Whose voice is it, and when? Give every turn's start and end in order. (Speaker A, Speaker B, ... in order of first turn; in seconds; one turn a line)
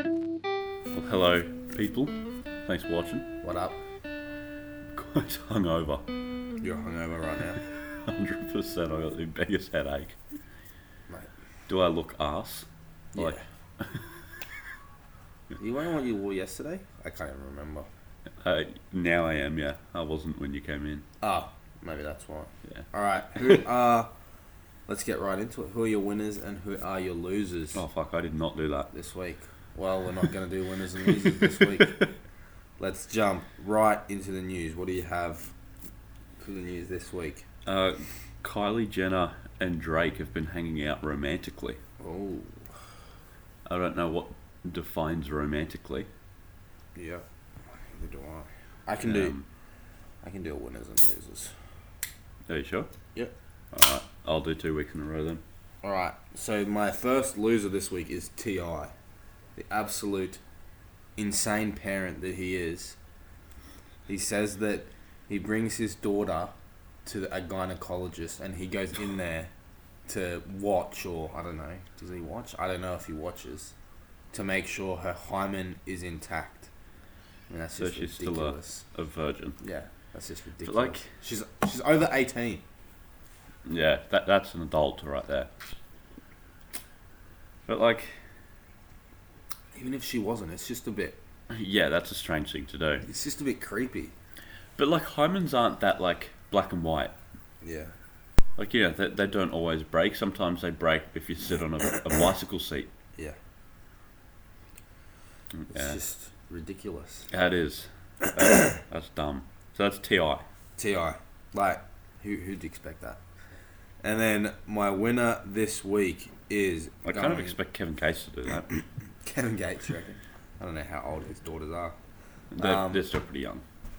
Speaker A: 0.9-2.1
Speaker A: 2.6-3.3
Speaker B: 3.4-3.8
Speaker A: 4.9-6.0
Speaker B: 6.6-7.6
Speaker A: 8.0-10.2
Speaker A: 11.7-14.0
Speaker B: 13.1-13.4
Speaker B: 15.6-17.9
Speaker A: 18.4-21.1
Speaker B: 21.2-24.1
Speaker B: 24.9-27.8
Speaker A: 27.7-28.9
Speaker B: 28.9-32.0
Speaker A: 31.1-32.1
Speaker B: 32.8-35.5
Speaker B: 36.4-37.5
Speaker A: 37.6-41.8
Speaker B: 42.0-42.7
Speaker A: 43.6-46.1
Speaker B: 47.0-49.3
Speaker A: 49.0-49.5
Speaker B: 50.2-51.5
Speaker A: 52.5-52.9
Speaker A: 53.7-55.4
Speaker B: 55.8-58.9
Speaker B: 59.6-60.4
Speaker B: 61.2-63.0
Speaker B: 64.1-66.5
Speaker B: 67.0-69.5
Speaker B: 70.1-73.7
Speaker B: 74.3-76.7
Speaker B: 77.5-78.8
Speaker A: 77.8-79.6
Speaker B: 79.6-82.6
Speaker A: 80.6-81.1
Speaker A: 83.7-85.5
Speaker A: 87.7-88.2
Speaker B: 89.7-91.2
Speaker A: 91.5-93.0
Speaker B: 93.0-94.1
Speaker A: 94.8-97.2
Speaker B: 97.6-97.9
Speaker A: 98.6-102.9
Speaker A: 105.5-106.0
Speaker B: 105.7-107.3
Speaker A: 107.3-110.4
Speaker B: 108.5-108.8
Speaker B: 110.8-113.2
Speaker B: 114.0-117.5
Speaker A: 117.0-118.7
Speaker B: 119.2-121.9
Speaker A: 122.5-123.6
Speaker B: 122.6-123.0